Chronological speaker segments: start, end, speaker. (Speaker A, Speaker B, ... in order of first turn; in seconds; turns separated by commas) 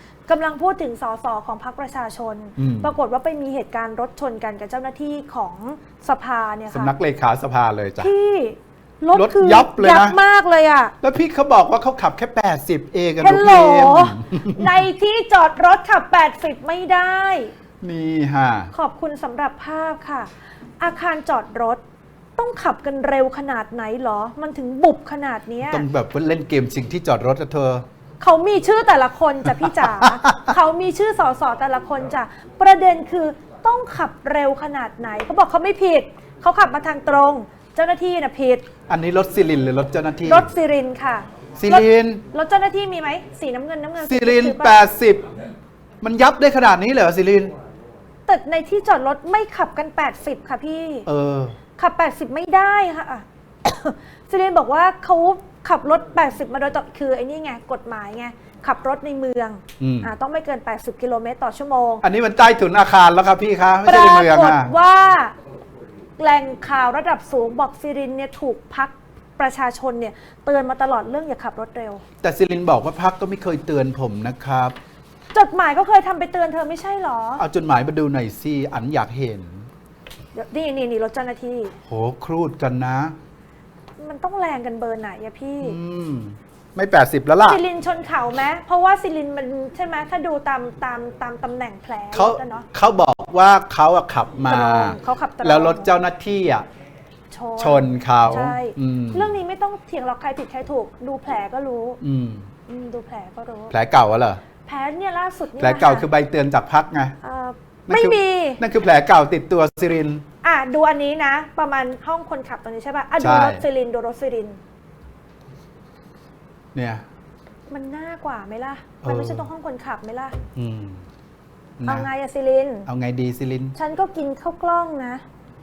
Speaker A: 0.3-6.9, Speaker B: 2.6-3.0, Speaker B: 6.7-8.1, Speaker A: 8.0-10.9, Speaker B: 9.1-10.2, Speaker B: 11.0-14.7, Speaker A: 13.2-17.5, Speaker B: 17.8-18.7, Speaker A: 18.7-21.8, Speaker A: 22.4-25.9, Speaker B: 25.6-27.9, Speaker A: 28.2-38.7, Speaker B: 29.5-30.6, Speaker B: 38.9-40.5, Speaker A: 40.2-44.8, Speaker B: 41.6-42.2, Speaker B: 44.0-45.4, Speaker B: 46.0-47.5, Speaker A: 48.3-51.1, Speaker B: 51.1-51.6, Speaker A: 51.8-62.0, Speaker B: 59.8-60.1, Speaker B: 62.0-64.7, Speaker A: 63.9-65.3, Speaker A: 66.2-72.0, Speaker B: 72.2-74.8, Speaker A: 75.3-77.4, Speaker B: 77.4-79.7, Speaker A: 80.3-81.8, Speaker B: 81.9-83.2, Speaker A: 84.0-85.8, Speaker B: 85.6-87.6, Speaker A: 87.4-92.7, Speaker B: 92.1-96.7, Speaker A: 94.5-95.9, Speaker A: 97.3-102.0, Speaker B: 97.6-99.3, Speaker B: 102.0-102.5, Speaker A: 102.7-103.7, Speaker B: 103.7-104.4, Speaker A: 104.6-106.1, Speaker B: 105.6-107.2, Speaker A: 107.2-108.6, Speaker B: 107.9-110.2, Speaker A: 110.4-114.6, Speaker B: 113.2-113.6, Speaker B: 116.8-117.0, Speaker A: 117.7-120.4, Speaker B: 119.0-119.5, Speaker B: 120.6-121.0, Speaker B: 121.8-122.1, Speaker A: 121.8-122.9, Speaker B: 122.9-123.8, Speaker A: 123.8-125.2